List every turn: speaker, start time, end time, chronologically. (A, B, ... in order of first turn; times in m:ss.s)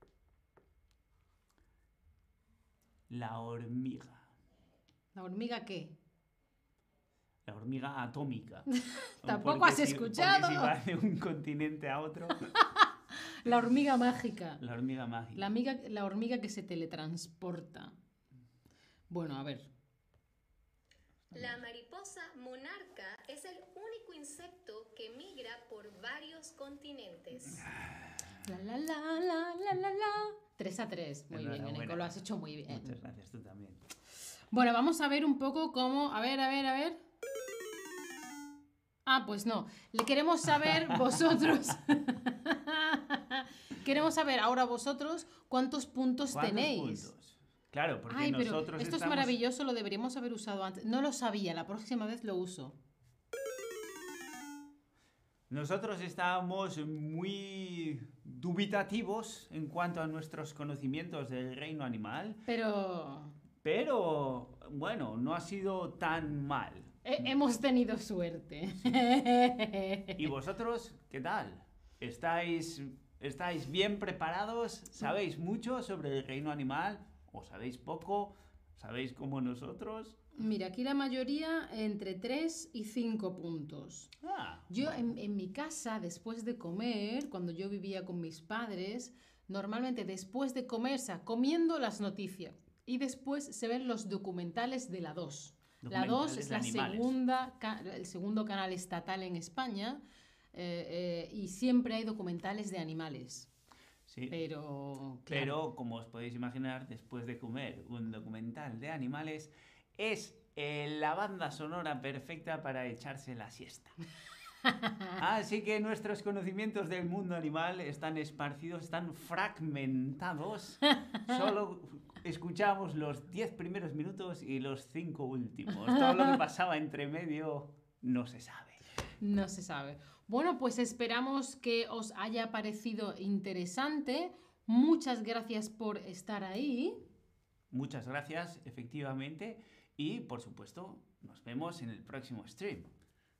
0:03.1-0:04.3 A
0:05.1-0:06.0 B
0:07.4-0:08.7 A
0:08.7-0:10.7 B
0:09.2-0:12.4 A
0:12.5-0:12.9 B
0:13.4-0:14.6 B
0:14.6-0:15.5 A
0:15.3-0:17.9 B
0:19.1-0:19.7 B
0:21.3-0:27.7 C
0:28.4-0:33.0 B
0:31.3-0:32.2 A
0:32.7-0:33.8 A
0:34.5-0:37.0 B
0:39.0-0:47.1 B
0:40.6-0:41.3 A
0:46.3-0:49.3 A
0:48.1-0:52.8 B
0:55.5-1:02.4 A
1:02.4-1:03.3 B
1:03.6-1:07.3 A
1:07.0-1:10.2 B
1:10.2-1:20.2 A
1:20.3-1:24.1 B
1:24.2-1:25.1 A
1:24.7-1:40.0 B
1:35.8-1:37.1 A
1:40.5-1:43.5 B
1:44.1-1:44.3 A
1:44.3-1:45.6 B
1:45.3-1:53.9 A
1:54.7-1:55.1 B
1:55.2-2:08.8 A
2:00.9-2:01.4 B
2:05.8-2:06.3 B
2:09.2-2:17.0 B
2:17.7-2:22.9 A